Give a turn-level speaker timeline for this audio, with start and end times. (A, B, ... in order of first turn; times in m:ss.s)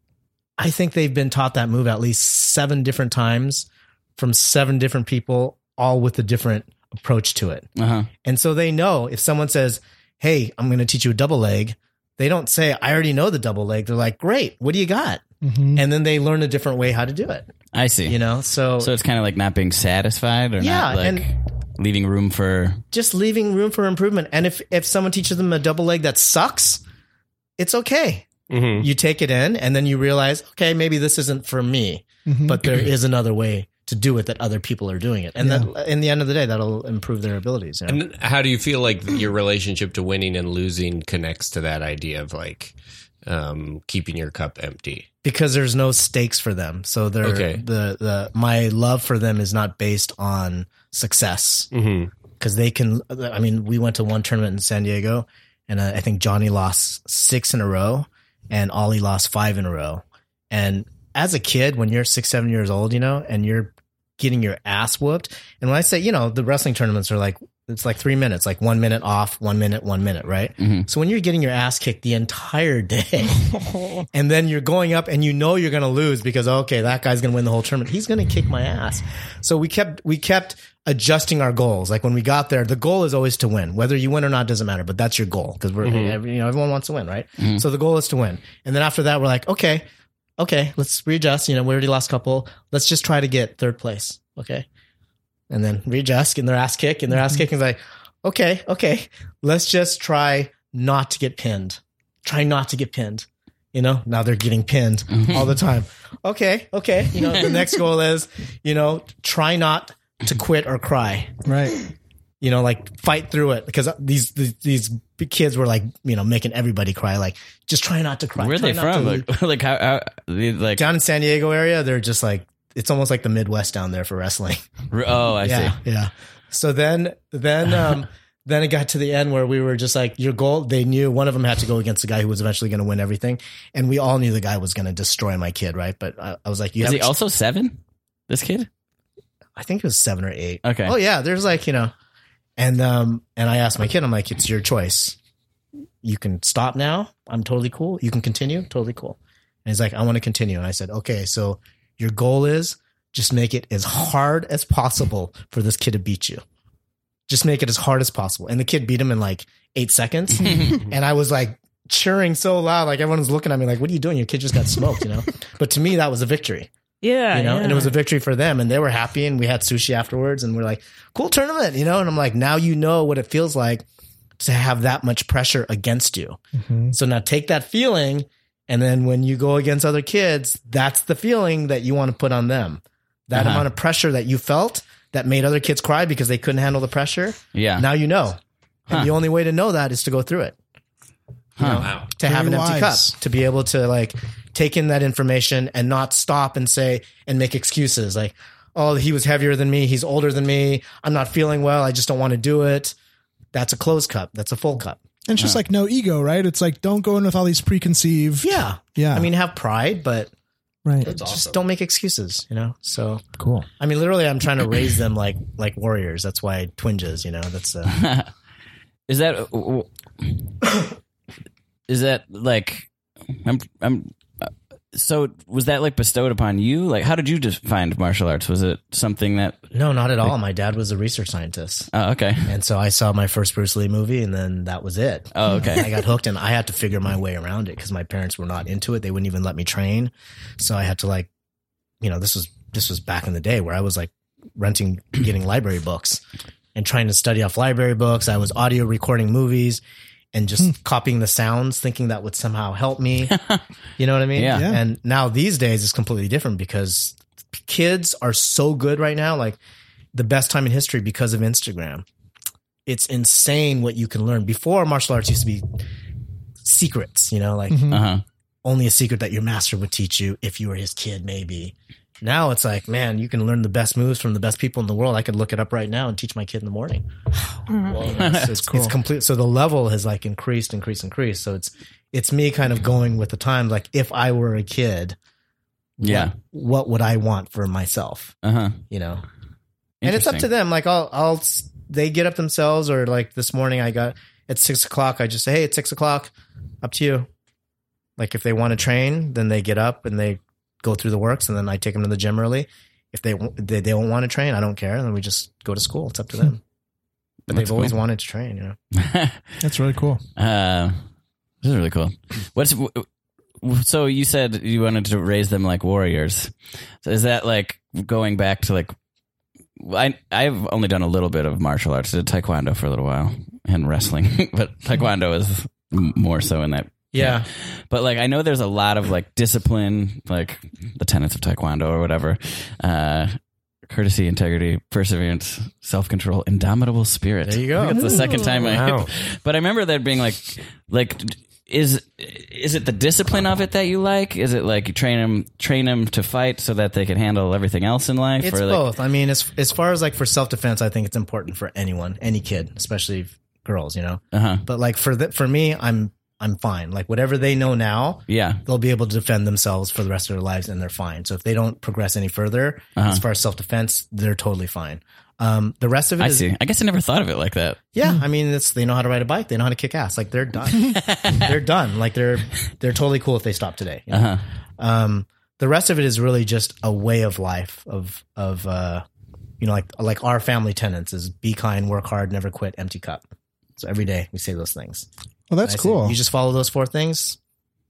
0:00.6-0:07.7 A
0:07.8-0:08.1 B
0:08.2-0:15.2 A
0:15.4-0:15.8 C
0:15.7-0:17.5 A
0:17.7-0:18.2 B
0:18.0-0:18.9 A
0:18.8-0:22.8 B
0:20.6-0:21.3 A
0:22.9-0:26.8 A
0:27.6-0:38.0 A
0:28.5-0:28.9 D
0:32.2-0:32.6 C
0:35.4-0:35.7 C
0:37.9-0:45.1 D
0:45.2-0:51.7 A
0:47.2-0:47.6 D
0:51.7-0:52.1 D
0:52.4-1:13.4 A
1:10.6-1:10.9 B
1:14.1-1:29.8 A
1:25.8-1:26.2 D
1:27.4-1:27.6 B
1:30.4-1:34.6 A
1:35.5-1:51.4 A
1:45.1-1:45.5 B
1:51.4-1:51.8 C
1:52.4-1:59.3 A
1:58.4-2:00.8 B
2:00.8-2:04.6 A
2:04.9-2:05.8 B
2:05.4-2:17.1 A
2:16.8-2:18.7 B
2:19.6-2:21.9 A
2:20.6-2:21.0 B
2:22.6-2:25.2 A
2:26.0-2:36.4 A
2:37.3-2:46.7 A
2:47.0-2:48.0 E
2:47.3-2:53.8 A
2:54.4-3:10.6 A
2:56.6-2:56.9 C
3:03.3-3:03.7 B
3:07.5-3:07.9 B
3:11.6-3:11.9 B
3:11.6-3:22.9 A
3:11.8-3:12.1 D
3:12.2-3:13.1 C
3:23.5-3:25.0 A
3:25.3-3:29.3 C
3:28.4-3:30.3 A
3:30.8-3:31.1 C
3:31.0-3:31.6 D
3:31.0-3:33.2 A
3:33.4-3:33.7 C
3:33.8-3:37.9 A
3:37.9-3:38.3 B
3:39.1-3:40.5 B
3:41.9-3:42.9 B
3:43.4-3:49.6 B
3:49.7-3:51.9 A
3:51.9-3:52.5 B
3:52.4-4:01.3 A
3:55.3-3:55.9 B
4:02.0-4:06.2 A
4:06.7-4:09.8 A
4:10.3-4:13.4 A
4:13.3-4:13.6 B
4:14.0-4:19.6 A
4:14.3-4:14.6 B
4:14.5-4:14.8 C
4:20.1-4:22.0 A
4:22.8-4:25.6 A
4:26.6-4:28.0 A
4:27.7-4:28.0 C
4:27.9-4:28.2 B
4:28.6-4:37.1 A
4:37.7-4:38.1 E
4:37.9-4:45.2 A
4:38.1-4:38.5 B
4:38.6-4:38.9 C
4:46.0-4:48.4 A
4:46.0-4:46.3 B
4:48.4-4:48.8 B
4:48.9-4:49.2 A
4:50.0-4:50.5 B
4:50.0-4:57.3 A
4:58.2-5:06.6 A
5:07.5-5:08.8 A
5:07.5-5:08.0 B
5:09.0-5:09.5 B
5:09.6-5:10.2 C
5:10.4-5:11.0 B
5:11.6-5:13.1 B
5:13.6-5:18.9 B
5:19.8-5:48.8 B
5:27.1-5:27.5 A
5:37.4-5:38.1 A
5:38.0-5:38.7 E
5:38.1-5:39.1 D
5:48.4-6:06.5 A
5:54.3-5:54.6 B
5:58.3-5:58.6 B
6:03.0-6:03.2 B
6:06.2-6:07.8 B
6:07.9-6:19.0 A
6:11.0-6:11.4 B
6:14.1-6:14.4 B
6:19.6-6:23.2 A
6:23.8-6:25.1 A
6:25.5-6:26.2 C
6:25.6-6:27.4 A